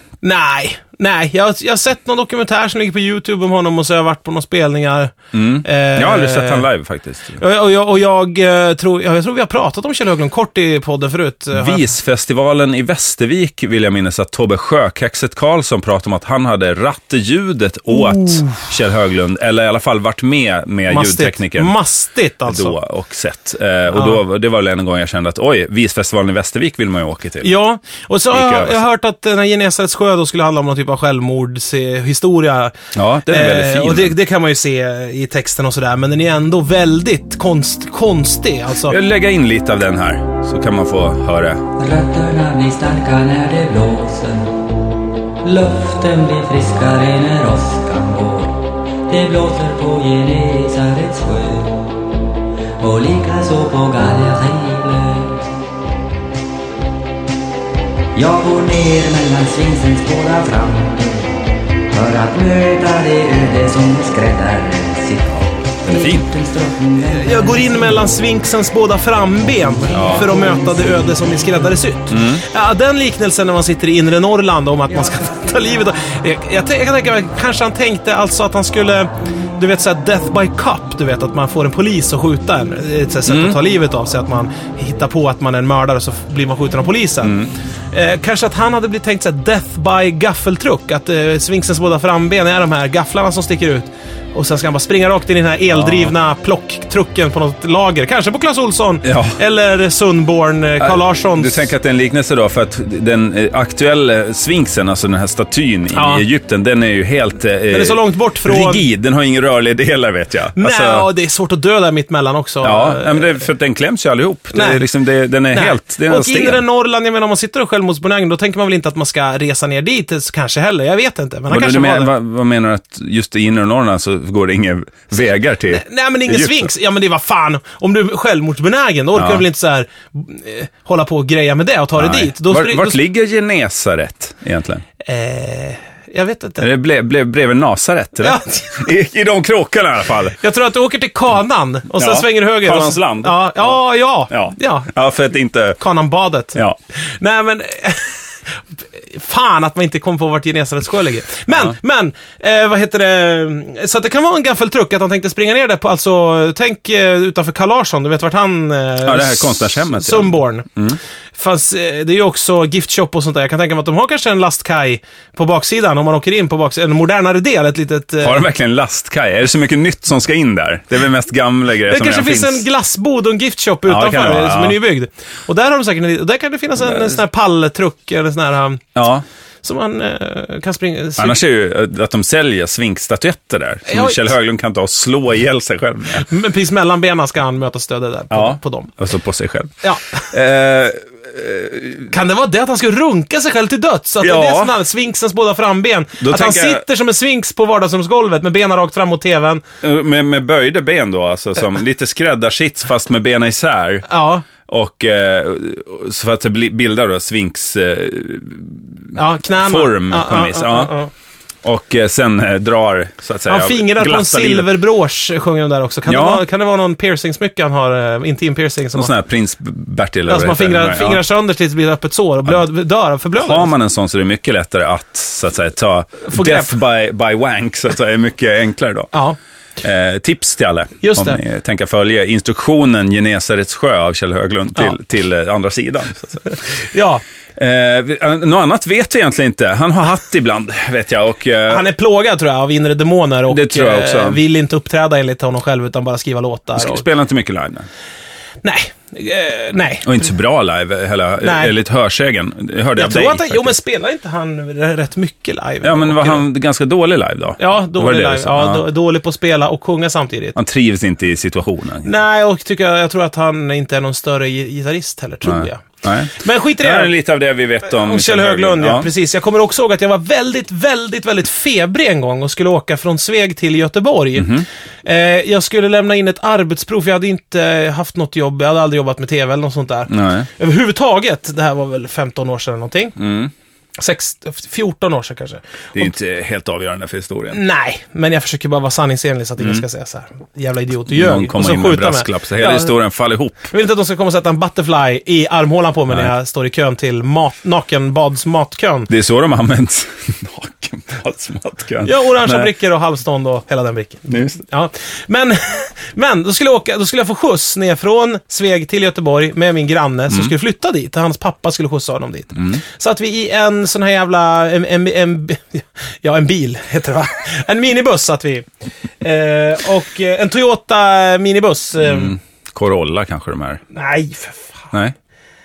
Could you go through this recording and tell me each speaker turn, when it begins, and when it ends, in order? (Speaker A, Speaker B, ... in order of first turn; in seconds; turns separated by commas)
Speaker A: 0.2-6.7, Speaker B: 5.3-7.4, Speaker A: 7.4-11.9, Speaker B: 11.5-21.7, Speaker A: 17.9-18.6, Speaker A: 20.9-22.8, Speaker B: 22.4-27.5, Speaker A: 23.9-24.2, Speaker A: 27.4-39.0, Speaker B: 28.3-28.8, Speaker B: 32.9-34.1, Speaker B: 38.9-41.6, Speaker C: 41.8-44.5, Speaker C: 45.4-51.9, Speaker C: 52.8-55.5, Speaker C: 58.1-61.3, Speaker C: 61.9-68.0, Speaker B: 65.8-66.2, Speaker A: 67.1-87.4, Speaker B: 69.9-70.3, Speaker B: 72.1-72.4, Speaker B: 83.3-83.6, Speaker B: 87.2-87.5, Speaker A: 87.9-101.7, Speaker B: 95.7-96.1, Speaker B: 99.0-99.4, Speaker B: 100.8-111.1, Speaker A: 105.9-106.2, Speaker A: 107.7-108.8, Speaker A: 110.5-113.4, Speaker B: 112.6-116.6, Speaker A: 114.5-114.8, Speaker A: 115.5-122.1, Speaker B: 121.5-126.7, Speaker A: 125.7-133.0, Speaker B: 129.1-129.4, Speaker B: 132.0-134.8, Speaker A: 135.0-136.7, Speaker B: 136.6-140.4, Speaker A: 138.2-138.8, Speaker A: 140.4-144.9, Speaker B: 141.9-145.8, Speaker A: 145.8-160.7, Speaker B: 159.0-161.0, Speaker A: 161.3-168.4, Speaker B: 168.2-172.6, Speaker A: 171.9-178.9, Speaker B: 173.9-174.8, Speaker B: 176.8-177.1, Speaker B: 178.9-179.2, Speaker A: 179.6-181.4, Speaker B: 181.2-186.3, Speaker A: 183.8-184.3, Speaker A: 186.1-188.9, Speaker B: 188.3-192.1, Speaker A: 189.8-190.3, Speaker A: 192.1-199.6, Speaker B: 194.2-194.7, Speaker B: 196.2-196.8, Speaker B: 199.8-204.1, Speaker A: 204.1-204.4, Speaker B: 204.6-210.9, Speaker A: 209.1-211.1, Speaker B: 211.6-214.7, Speaker A: 213.5-219.1, Speaker B: 216.1-216.4, Speaker B: 218.9-221.2, Speaker A: 220.3-223.7, Speaker B: 223.4-229.1, Speaker A: 226.3-226.7, Speaker A: 229.1-229.4, Speaker B: 229.8-236.4, Speaker A: 231.0-231.4, Speaker A: 236.7-237.2, Speaker B: 237.6-241.8, Speaker A: 241.7-247.0, Speaker B: 243.5-244.4, Speaker B: 246.8-247.9, Speaker A: 248.6-250.2, Speaker B: 250.0-253.7, Speaker A: 251.4-251.7, Speaker A: 252.9-256.4, Speaker B: 255.8-258.8, Speaker A: 257.6-260.6, Speaker B: 260.6-262.1, Speaker A: 262.0-267.1, Speaker B: 265.4-269.1, Speaker A: 267.9-283.2, Speaker B: 274.4-274.6, Speaker B: 280.1-280.5, Speaker B: 283.2-283.5, Speaker A: 284.0-286.1, Speaker B: 285.9-287.6, Speaker A: 287.5-292.9, Speaker B: 289.6-289.8, Speaker B: 291.1-293.7, Speaker A: 293.6-299.1, Speaker B: 299.1-302.7, Speaker A: 302.0-318.7, Speaker B: 304.3-304.6, Speaker A: 319.2-322.4, Speaker B: 322.0-323.8, Speaker A: 323.9-324.9